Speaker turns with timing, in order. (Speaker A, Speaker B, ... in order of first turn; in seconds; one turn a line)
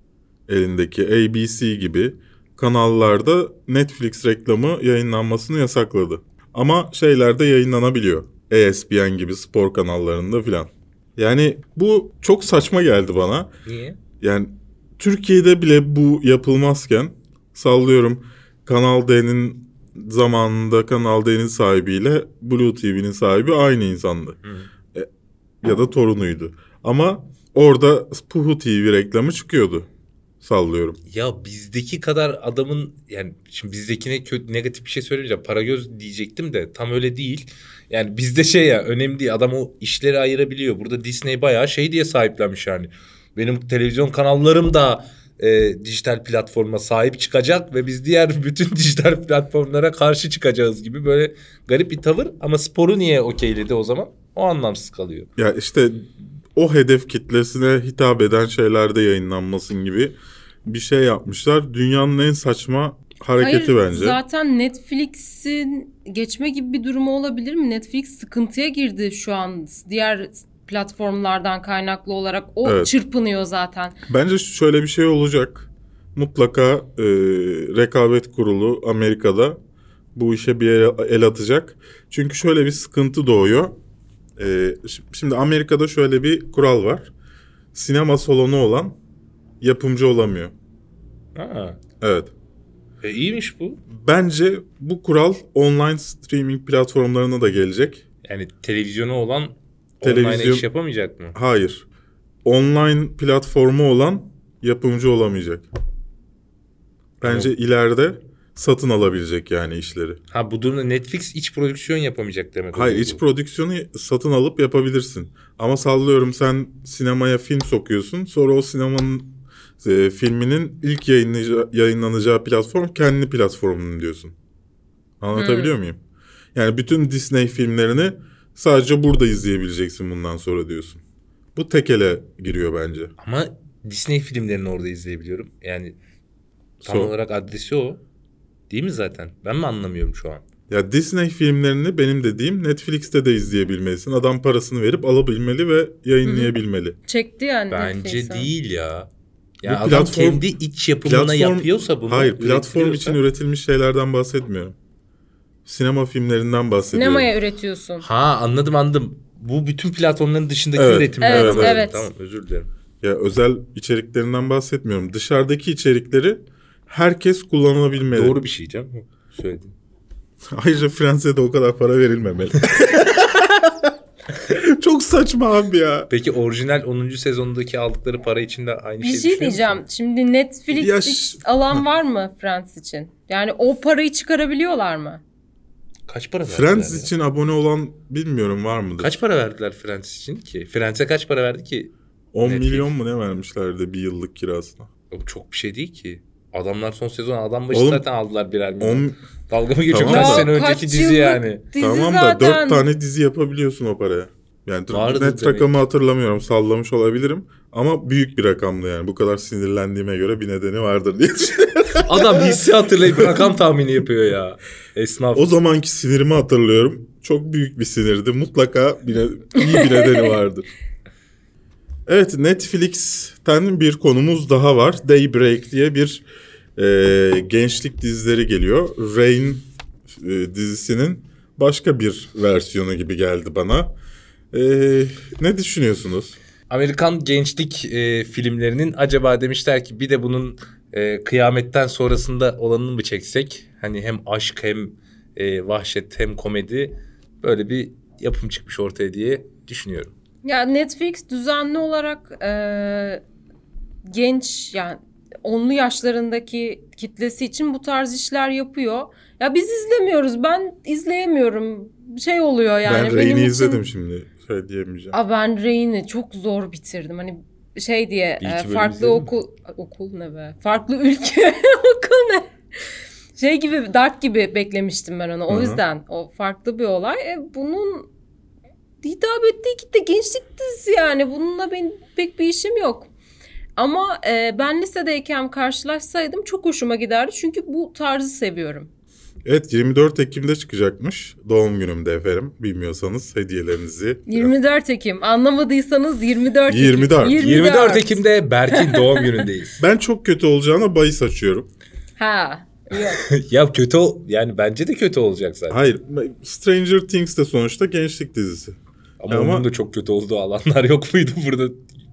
Speaker A: 0.5-13.5
Speaker B: 13.7-14.0
Speaker A: 14.2-24.4
Speaker B: 24.4-24.7
Speaker A: 25.6-29.9
Speaker A: 30.4-31.0
Speaker B: 31.1-55.3
Speaker A: 55.4-64.2
Speaker C: 63.4-74.0
Speaker A: 72.6-72.9
Speaker A: 74.1-79.6
Speaker A: 80.2-83.8
Speaker A: 84.4-87.1
Speaker A: 87.7-89.0
Speaker A: 89.6-90.5
Speaker B: 91.3-91.8
Speaker A: 92.0-92.3
Speaker B: 93.0-93.8
Speaker A: 93.9-98.0
Speaker B: 98.2-101.4
Speaker A: 100.0-100.7
Speaker A: 101.3-101.9
Speaker A: 102.5-105.7
Speaker B: 107.2-107.5
Speaker A: 107.2-110.2
Speaker B: 110.3-113.2
Speaker A: 112.7-124.3
Speaker A: 125.2-126.0
Speaker C: 125.3-125.7
Speaker A: 126.5-131.0
Speaker A: 131.6-133.1
Speaker B: 133.2-136.0
Speaker B: 136.8-138.0
Speaker A: 136.8-137.1
Speaker B: 138.7-140.4
Speaker A: 140.7-147.0
Speaker C: 146.2-146.5
Speaker C: 147.1-148.5
Speaker B: 147.7-149.1
Speaker B: 149.6-153.2
Speaker A: 149.6-150.5
Speaker A: 151.0-154.8
Speaker A: 155.7-157.3
Speaker C: 156.9-158.1
Speaker B: 158.0-162.7
Speaker A: 160.8-161.9
Speaker C: 161.2-162.1
Speaker A: 163.0-168.4
Speaker B: 168.1-169.7
Speaker A: 170.5-173.9
Speaker A: 174.5-176.1
Speaker B: 176.1-179.8
Speaker C: 179.0-185.2
Speaker A: 180.7-181.8
Speaker B: 186.1-187.1
Speaker A: 186.5-189.2
Speaker B: 189.0-191.9
Speaker A: 192.3-194.9
Speaker B: 192.4-192.9
Speaker B: 195.1-201.6
Speaker A: 197.7-198.1
Speaker A: 198.8-199.2
Speaker A: 199.9-200.5
Speaker C: 200.0-202.9
Speaker A: 201.8-212.5
Speaker B: 204.9-205.7
Speaker B: 212.0-215.6
Speaker A: 213.2-213.4
Speaker A: 215.3-220.7
Speaker C: 219.7-220.2
Speaker A: 222.1-226.2
Speaker A: 226.8-233.9
Speaker A: 234.5-236.4
Speaker B: 236.7-250.1
Speaker C: 250.4-253.2
Speaker C: 254.1-263.8
Speaker A: 262.8-265.1
Speaker C: 265.1-272.5
Speaker B: 268.4-269.3
Speaker C: 273.4-278.1
Speaker A: 275.5-275.8
Speaker C: 279.0-283.1
Speaker C: 283.8-288.9
Speaker A: 289.4-294.5
Speaker C: 294.3-299.4
Speaker A: 296.7-297.4
Speaker B: 297.4-299.8
Speaker A: 299.8-301.7
Speaker C: 302.2-303.3
Speaker B: 303.2-305.8
Speaker A: 305.7-308.8
Speaker B: 309.2-311.9
Speaker A: 309.3-309.7